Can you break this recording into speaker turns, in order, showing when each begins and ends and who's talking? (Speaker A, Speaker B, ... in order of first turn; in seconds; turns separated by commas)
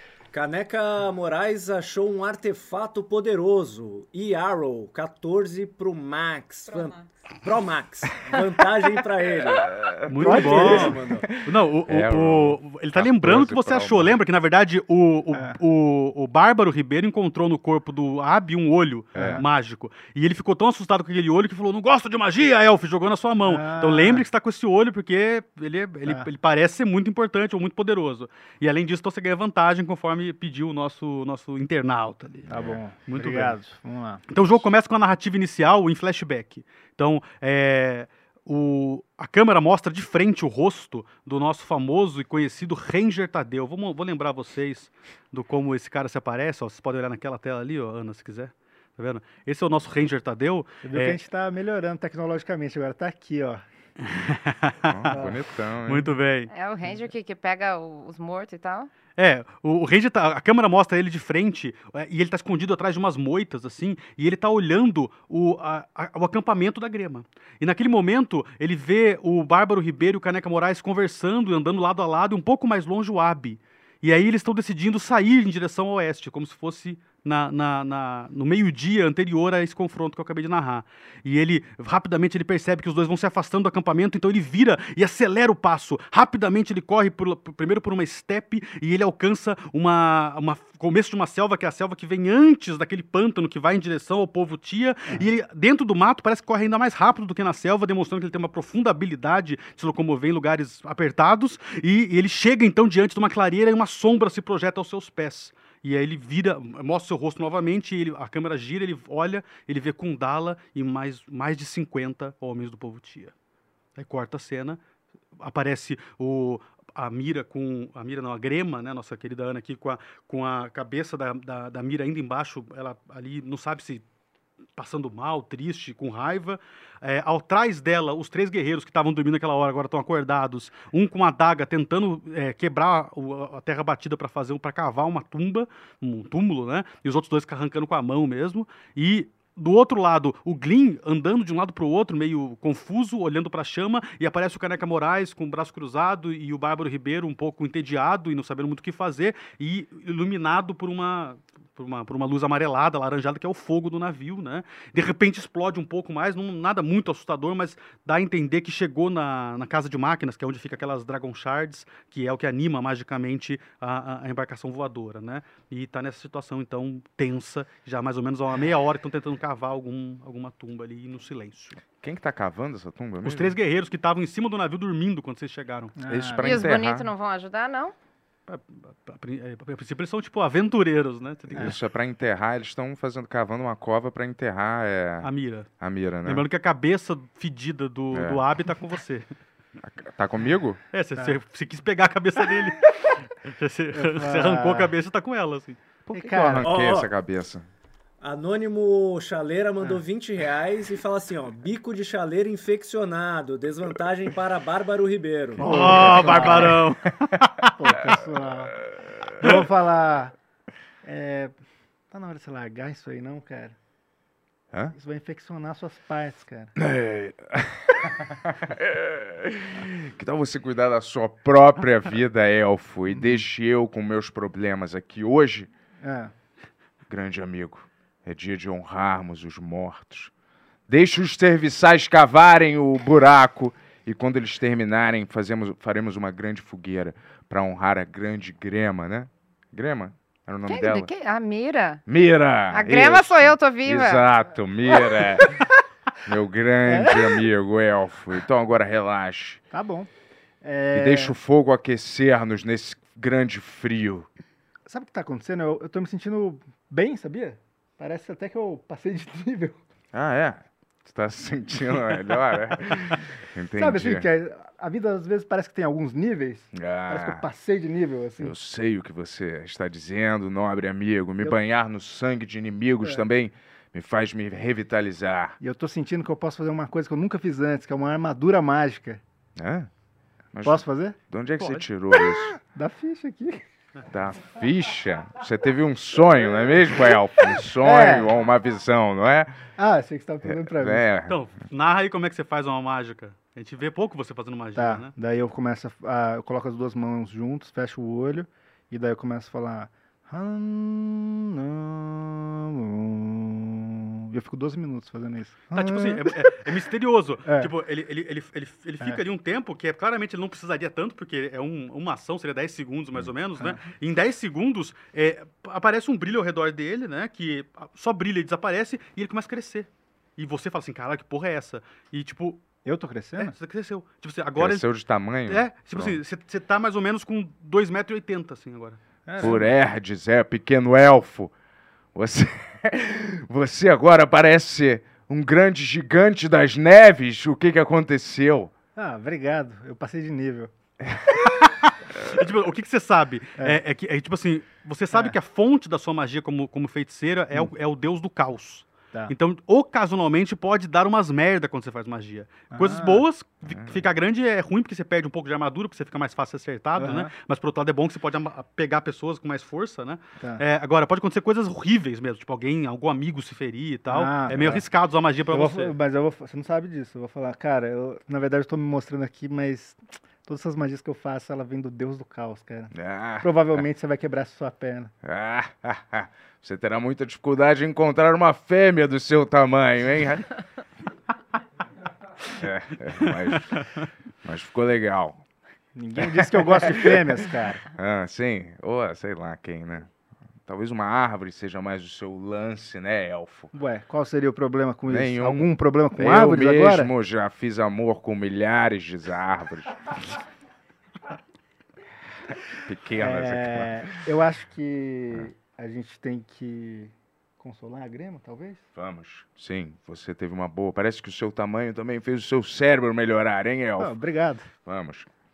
Speaker A: 0.3-11.3, Speaker B: 9.7-14.2, Speaker C: 10.1-32.5, Speaker D: 10.2-10.9, Speaker D: 15.3-15.6, Speaker B: 19.1-19.4, Speaker D: 19.1-19.4, Speaker D: 23.4-24.2, Speaker B: 32.5-32.8, Speaker D: 32.5-34.2, Speaker C: 33.1-33.6, Speaker C: 34.3-51.2, Speaker D: 50.8-53.6, Speaker C: 54.0-55.1, Speaker B: 54.9-56.1, Speaker D: 55.1-55.4, Speaker C: 55.9-56.5, Speaker E: 56.5-58.9, Speaker C: 59.2-113.3, Speaker C: 114.0-114.8, Speaker C: 115.4-124.0, Speaker C: 124.8-171.8, Speaker B: 172.0-173.6, Speaker C: 173.2-175.9, Speaker D: 176.0-176.6, Speaker B: 176.1-177.1, Speaker E: 176.4-177.9, Speaker C: 178.5-181.8, Speaker B: 181.5-185.3, Speaker C: 185.2-185.7, Speaker B: 185.8-186.4, Speaker C: 186.2-189.3, Speaker B: 188.1-188.4, Speaker B: 189.8-190.8, Speaker C: 190.9-195.8, Speaker D: 193.9-194.9, Speaker B: 196.1-197.7, Speaker D: 196.1-196.7, Speaker A: 196.6-197.1, Speaker A: 198.2-206.3, Speaker D: 205.6-206.8, Speaker C: 205.6-207.5, Speaker D: 207.7-208.7, Speaker B: 208.9-209.5, Speaker D: 209.4-210.3, Speaker D: 211.0-211.5, Speaker D: 212.1-213.7, Speaker D: 214.9-216.7, Speaker B: 216.8-225.7, Speaker D: 223.1-223.4, Speaker D: 226.0-226.3, Speaker B: 227.1-230.3, Speaker B: 230.9-241.1, Speaker E: 240.7-242.0, Speaker B: 242.1-245.6, Speaker E: 242.7-244.2, Speaker B: 246.2-249.6, Speaker D: 246.8-247.4, Speaker D: 249.7-250.1, Speaker D: 250.6-251.3, Speaker B: 250.9-254.3, Speaker D: 254.9-259.8, Speaker B: 260.1-264.3, Speaker D: 263.8-268.5, Speaker B: 266.7-267.4, Speaker B: 268.4-275.6, Speaker D: 275.6-279.2, Speaker B: 279.6-279.9, Speaker B: 280.5-282.6, Speaker D: 280.6-281.1, Speaker C: 281.6-281.8, Speaker D: 282.3-283.6, Speaker B: 284.1-289.5, Speaker D: 287.8-288.3, Speaker D: 289.8-291.0, Speaker B: 290.4-291.4, Speaker C: 291.3-295.1, Speaker D: 294.8-306.5, Speaker C: 305.7-322.6, Speaker D: 307.4-307.7, Speaker D: 322.8-323.5, Speaker C: 323.4-324.9, Speaker B: 324.6-326.2, Speaker C: 325.4-329.6, Speaker D: 329.3-329.7, Speaker B: 329.4-331.5, Speaker B: 332.1-338.7, Speaker D: 338.9-340.7, Speaker C: 341.6-365.9, Speaker D: 352.7-353.2, Speaker B: 353.6-354.1, Speaker D: 357.0-357.3, Speaker D: 364.1-364.8, Speaker D: 365.5-375.1, Speaker B: 372.9-373.8, Speaker B: 375.2-380.5, Speaker B: 382.5-383.8, Speaker B: 384.4-385.4, Speaker D: 385.9-387.8, Speaker B: 386.2-387.1, Speaker B: 387.9-390.1, Speaker B: 390.6-393.7, Speaker D: 393.7-397.1, Speaker B: 395.1-400.2, Speaker B: 402.8-404.1, Speaker D: 403.2-408.8, Speaker B: 408.9-414.1, Speaker D: 414.0-414.7, Speaker B: 414.8-415.3